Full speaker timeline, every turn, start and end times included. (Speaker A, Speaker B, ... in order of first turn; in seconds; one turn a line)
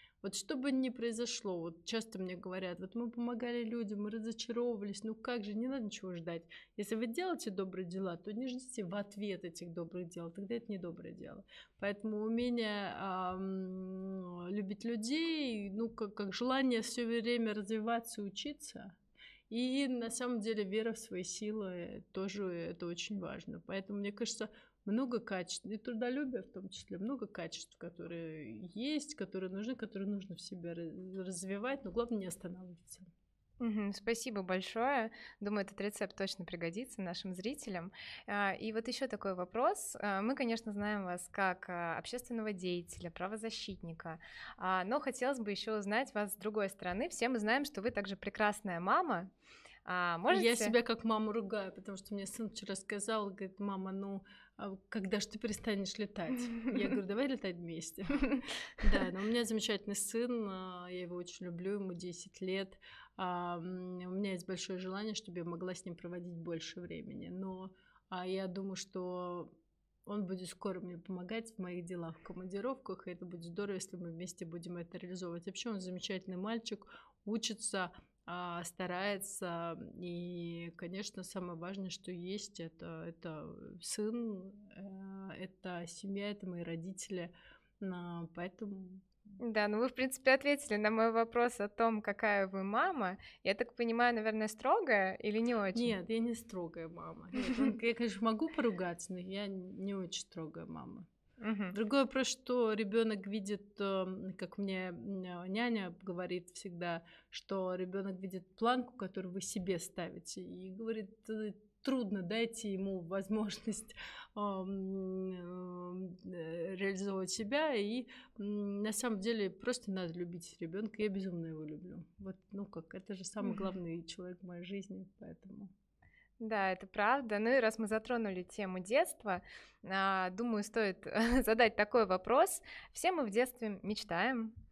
Speaker A: 0.2-18.9
Speaker A: 19.5-33.1
Speaker B: 33.6-49.3
Speaker B: 49.8-50.7
Speaker A: 50.3-69.5
Speaker A: 70.0-89.0
Speaker B: 89.4-95.9
Speaker A: 95.7-101.1
Speaker B: 101.4-101.7
Speaker A: 101.7-125.7
Speaker B: 123.4-123.7
Speaker B: 126.4-134.5